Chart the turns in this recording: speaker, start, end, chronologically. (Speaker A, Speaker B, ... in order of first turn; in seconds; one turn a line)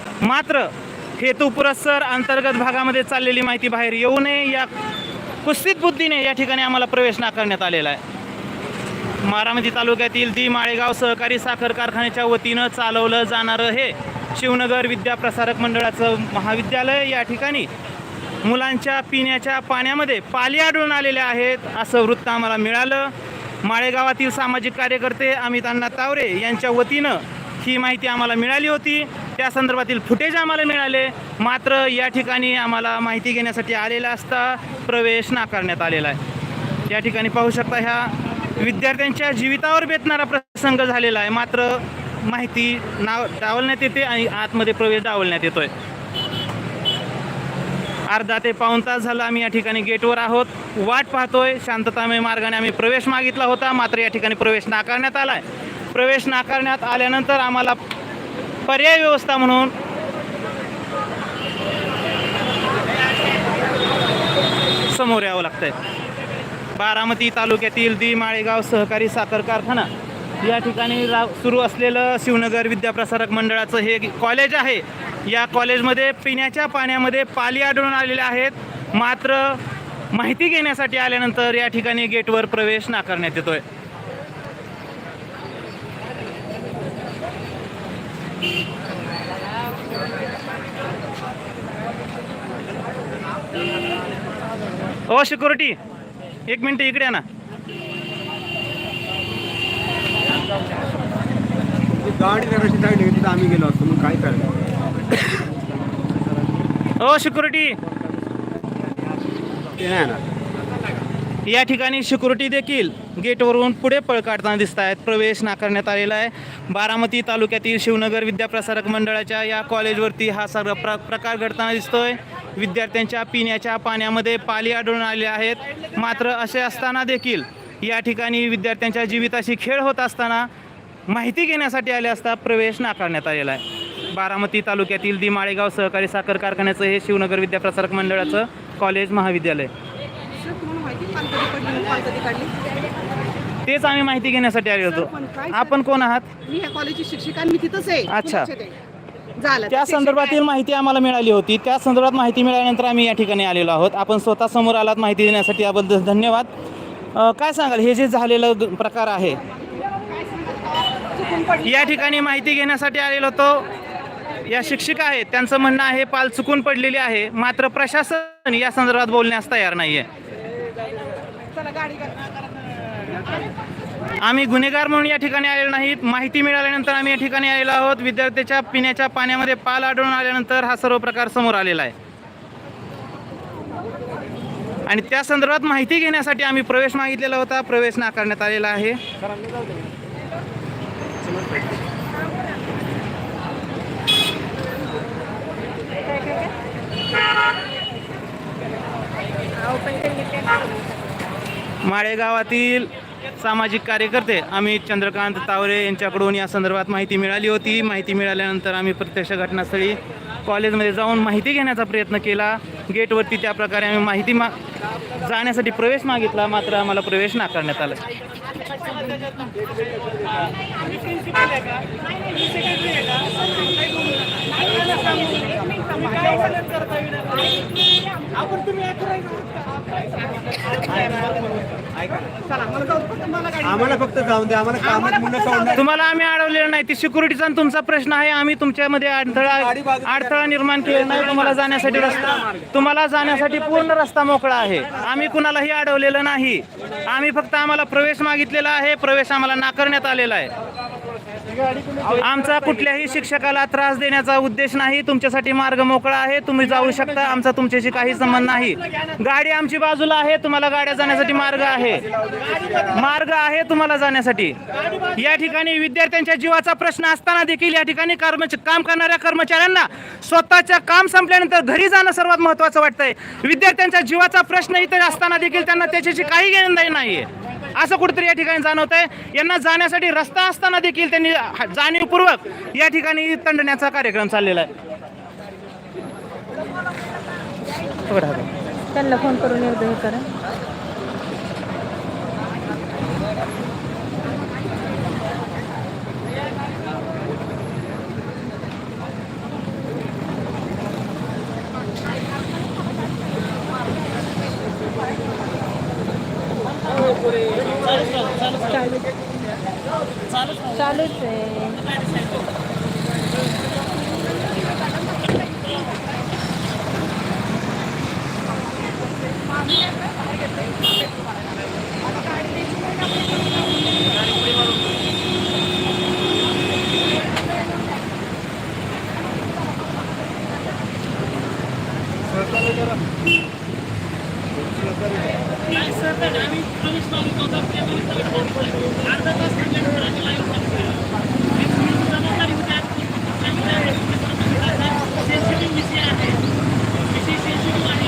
Speaker A: 0.2-4.7
Speaker A: 5.4-8.0
Speaker A: 9.2-17.7
Speaker A: 18.4-36.2
Speaker A: 36.9-45.7
Speaker A: 48.1-57.8
Speaker A: 58.6-59.7
Speaker A: 64.9-65.7
Speaker A: 66.7-69.9
Speaker A: 70.4-83.6
Speaker A: 95.1-95.8
Speaker A: 96.5-97.2
Speaker B: 102.0-104.6
Speaker A: 107.0-107.8
Speaker B: 109.8-110.2
Speaker A: 111.5-130.5
Speaker A: 131.1-139.7
Speaker C: 140.4-142.7
Speaker B: 140.7-142.3
Speaker A: 143.6-146.3
Speaker C: 146.4-148.0
Speaker A: 148.0-148.6
Speaker A: 149.5-156.5
Speaker A: 157.1-159.4
Speaker A: 161.4-163.7
Speaker A: 164.5-170.1
Speaker A: 174.2-181.9
Speaker A: 184.9-189.0
Speaker C: 199.8-200.5
Speaker A: 201.8-214.6
Speaker A: 215.2-218.0
Speaker C: 224.9-226.3
Speaker B: 233.5-235.7
Speaker A: 235.7-250.5
Speaker A: 252.0-284.7
Speaker A: 288.0-288.5
Speaker D: 288.9-290.3
Speaker A: 307.9-308.8
Speaker D: 310.7-311.8
Speaker A: 336.1-338.3
Speaker A: 339.3-340.7
Speaker A: 342.0-342.8
Speaker A: 345.5-346.3